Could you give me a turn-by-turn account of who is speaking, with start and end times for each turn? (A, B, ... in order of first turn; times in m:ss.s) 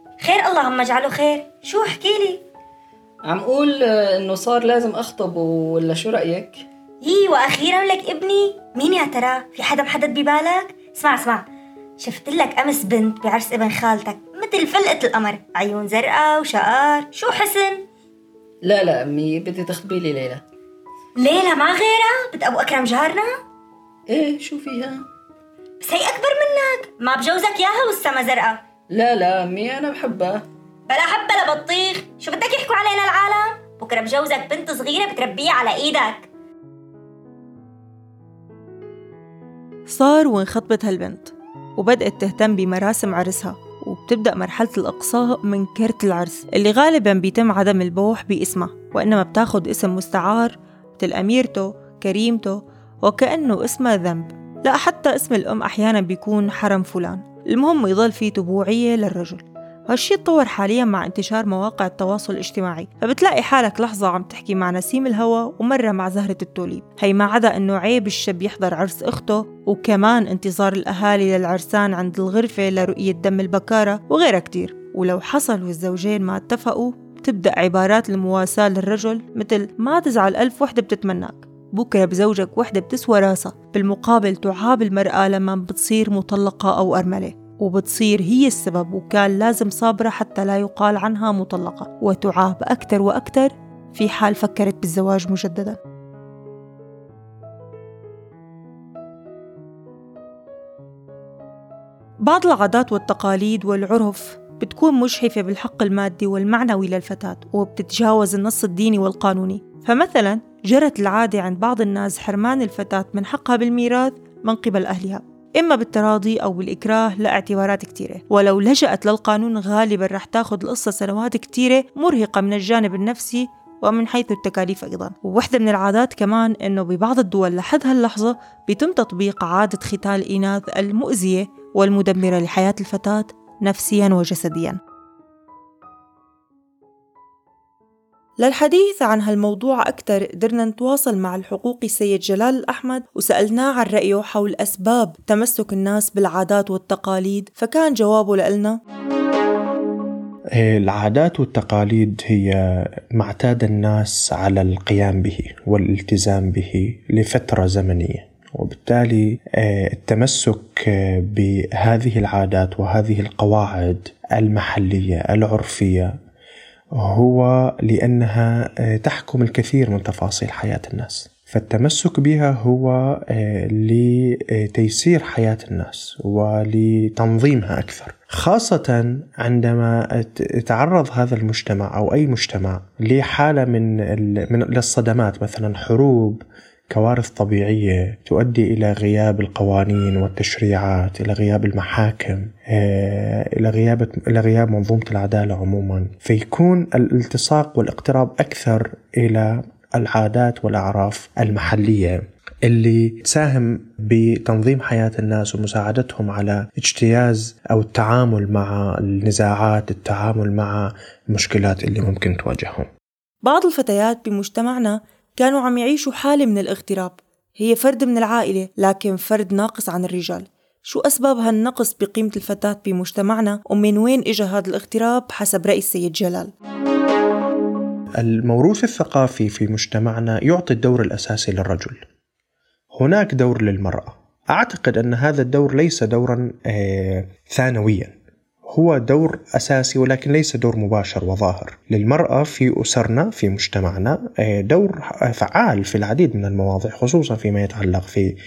0:00.2-0:02.4 A
0:03.2-0:06.6 B
0:07.0-0:11.4 A
0:12.0-0:17.8 A
0:18.6-0:20.4 B
0:21.2-0:23.3 A
0:24.1-0:25.0 B
0:25.8-0:28.6 A
0:28.9-0:30.4 B
0:30.9-0:36.3 A
0:39.9-1:35.8 C
1:42.2-2:14.8 C
2:18.4-2:28.8 C
2:30.6-2:46.1 D
2:47.0-3:32.9 D
3:33.4-3:46.5 C
3:48.2-3:52.0 D
3:52.9-3:58.1 D
3:58.7-4:08.3 D